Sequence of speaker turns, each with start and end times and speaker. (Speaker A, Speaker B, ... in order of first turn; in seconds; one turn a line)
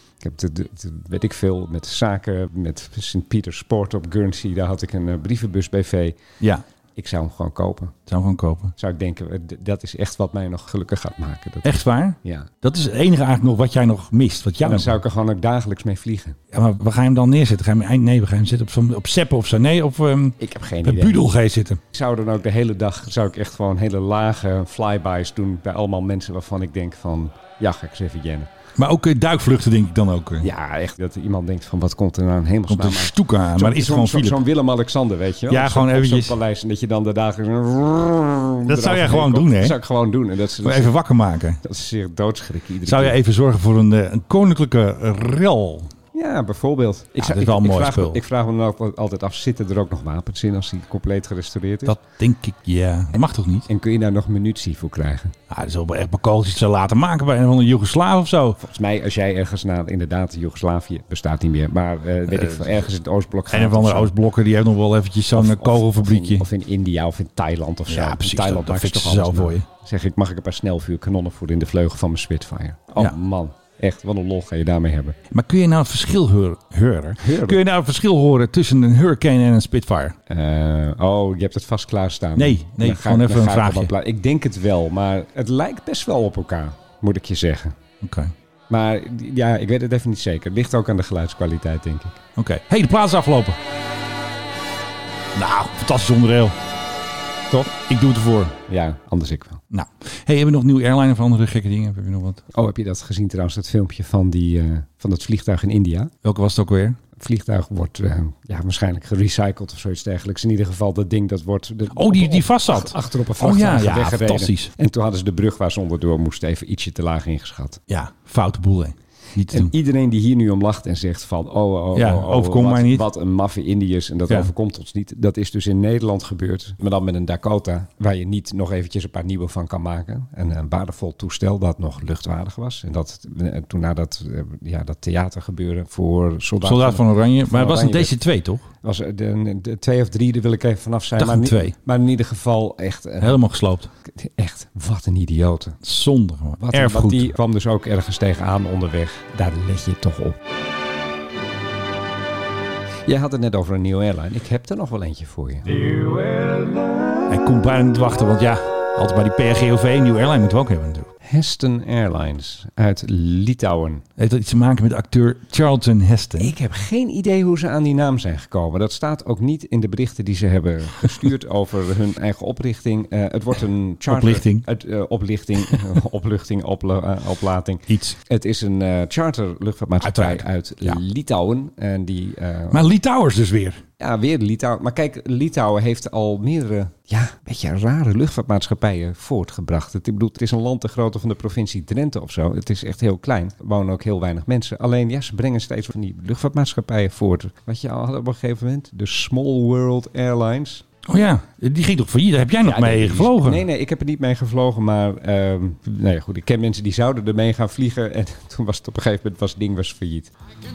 Speaker A: 0.2-6.2
Speaker A: 7.0-7.9
Speaker B: 8.1-8.7
Speaker A: 8.8-12.5
Speaker B: 11.6-15.0
Speaker A: 14.6-16.4
Speaker B: 16.5-21.8
Speaker A: 20.4-21.2
Speaker A: 21.9-28.5
Speaker B: 28.8-30.5
Speaker A: 30.4-41.0
Speaker B: 32.7-34.4
Speaker B: 35.5-36.4
Speaker B: 38.7-39.8
Speaker B: 40.6-41.6
Speaker A: 41.6-43.2
Speaker B: 42.9-45.9
Speaker A: 46.1-52.0
Speaker B: 47.2-48.2
Speaker B: 51.9-53.7
Speaker A: 53.7-55.4
Speaker B: 55.5-58.6
Speaker A: 58.6-64.1
Speaker B: 62.3-62.9
Speaker B: 63.5-66.5
Speaker A: 65.3-75.2
Speaker B: 67.9-69.7
Speaker B: 75.3-80.2
Speaker A: 77.2-77.6
Speaker A: 80.3-87.8
Speaker B: 82.4-83.9
Speaker B: 88.0-88.3
Speaker A: 88.7-92.2
Speaker B: 92.4-93.6
Speaker B: 95.3-96.6
Speaker B: 97.7-98.6
Speaker A: 98.7-99.6
Speaker B: 99.7-102.4
Speaker A: 102.5-106.1
Speaker B: 106.2-107.0
Speaker A: 107.2-117.8
Speaker B: 111.9-114.7
Speaker B: 117.9-119.7
Speaker A: 119.5-138.2
Speaker B: 121.9-123.1
Speaker B: 136.6-138.7
Speaker A: 138.8-143.4
Speaker B: 141.2-141.8
Speaker B: 143.2-143.9
Speaker A: 144.1-145.8
Speaker B: 145.8-147.3
Speaker A: 146.6-150.4
Speaker A: 153.1-155.8
Speaker B: 157.3-161.1
Speaker A: 161.2-164.0
Speaker B: 164.2-166.6
Speaker A: 166.4-182.9
Speaker B: 174.1-174.7
Speaker B: 177.9-178.2
Speaker B: 180.0-181.0
Speaker B: 182.7-183.8
Speaker A: 184.0-200.8
Speaker B: 201.1-203.6
Speaker A: 202.6-210.3